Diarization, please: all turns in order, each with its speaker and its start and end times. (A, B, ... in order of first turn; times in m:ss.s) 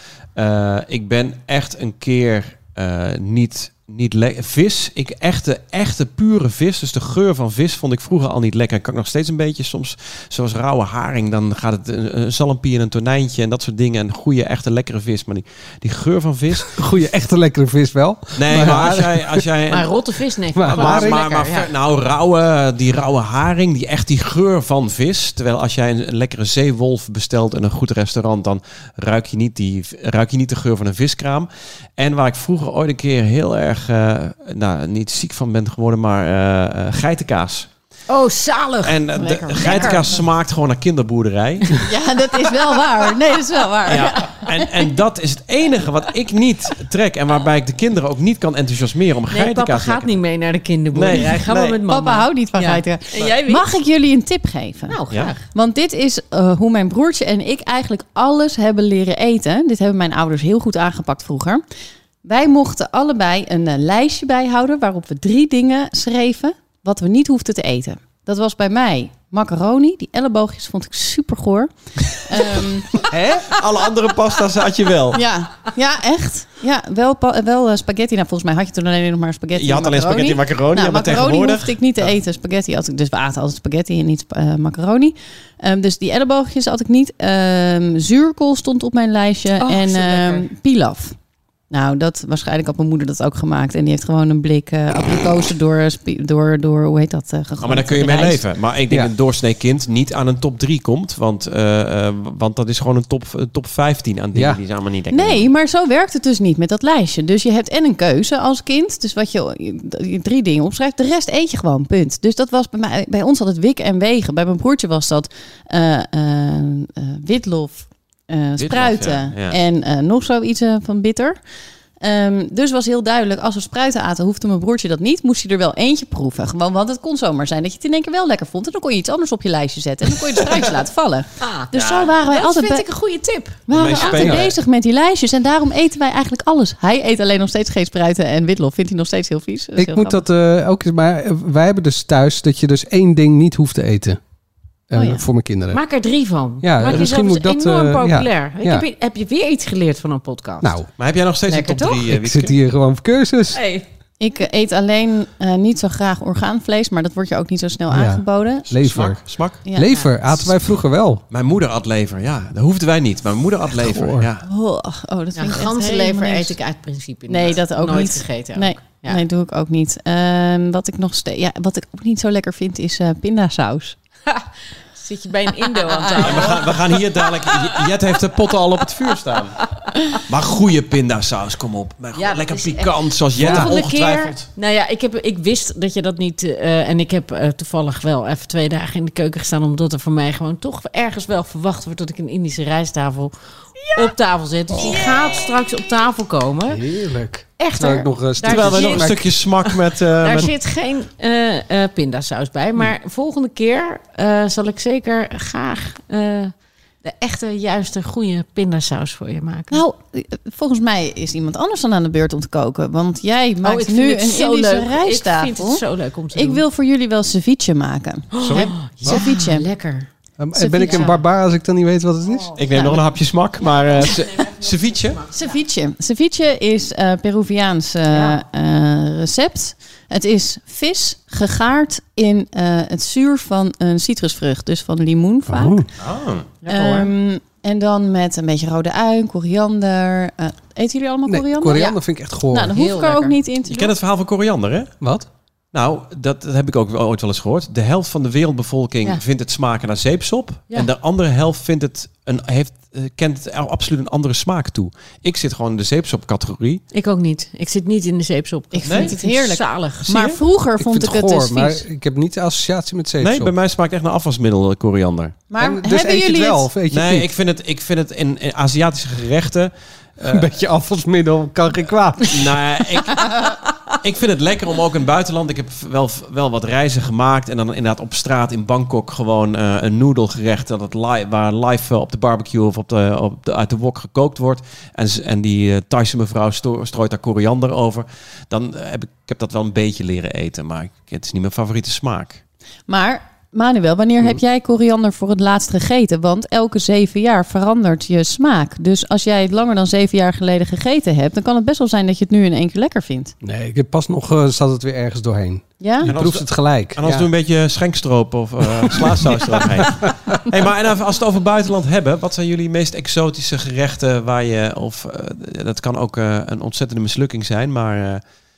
0:00.4-0:16.8 A
0:16.6-0:19.4 B
0:18.4-0:19.9 A
0:19.7-0:21.7 C
0:20.5-0:21.2 B
0:20.7-0:37.7 A
0:38.1-0:40.1 C
0:38.8-0:41.8 A
0:39.2-0:40.2 D
0:41.7-0:44.8 D
0:43.8-0:50.2 A
0:49.3-0:53.6 C
0:50.9-0:51.8 A
0:51.8-1:01.6 D
0:54.9-0:55.4 C
1:02.2-1:13.1 D
1:13.0-1:13.5 B
1:13.5-1:15.2 A
1:15.1-1:31.2 D
1:19.5-1:22.1 A
1:29.6-1:30.5 C
1:31.7-1:38.4 D
1:37.6-1:45.5 A
1:44.3-1:44.6 B
1:45.1-2:01.4 D
1:58.6-1:59.6 A
2:02.0-2:12.8 D
2:11.4-2:14.3 C
2:11.7-2:12.1 A
2:13.7-2:20.2 D
2:13.7-2:14.6 A
2:19.8-2:24.2 B
2:24.9-2:25.8 B
2:24.9-2:25.2 D
2:25.7-2:30.7 C
2:26.6-2:28.8 B
2:30.6-2:30.9 B
2:31.0-2:32.6 A
2:32.0-2:33.6 B
2:33.5-2:33.8 C
2:34.2-2:38.7 D
2:37.9-2:41.2 B
2:38.7-2:39.6 A
2:39.7-2:40.1 D
2:41.3-2:44.5 A
2:43.8-2:44.3 B
2:44.4-2:46.6 D
2:45.3-2:49.2 C
2:47.3-2:54.0 D
2:54.3-2:57.8 C
2:55.8-2:56.6 D
2:56.2-2:59.6 A
3:00.3-3:04.5 A
3:02.1-3:13.3 C
3:03.4-3:03.7 B
3:13.9-3:16.8 C
3:16.7-3:19.3 B
3:17.6-3:29.8 C
3:18.4-3:20.5 A
3:29.7-3:39.7 D
3:33.6-3:36.6 C
3:38.3-3:40.1 C
3:40.4-3:42.5 B
3:40.5-3:41.2 D
3:40.8-3:41.1 C
3:42.5-3:45.2 A
3:44.0-3:45.6 C
3:45.3-3:55.9 D
3:48.1-3:48.4 C
3:55.5-3:55.9 B
3:56.0-3:56.6 A
3:56.6-3:57.1 C
3:56.7-4:02.0 D
4:01.2-4:02.8 B
4:02.5-4:03.9 D
4:02.7-4:03.4 C
4:03.7-4:04.9 A
4:05.0-4:05.3 B
4:05.7-4:16.8 A
4:16.9-4:20.2 C
4:18.7-4:21.8 D
4:18.8-4:19.1 A
4:20.1-4:20.4 A
4:20.8-4:23.5 B
4:23.2-4:25.4 A
4:25.5-4:26.7 D
4:25.6-4:27.3 B
4:26.9-4:30.5 A
4:30.2-4:32.6 B
4:32.2-4:52.4 A
4:52.9-5:03.3 D
5:03.4-5:07.3 B
5:05.8-5:06.1 D
5:06.0-5:18.2 A
5:08.8-5:10.3 B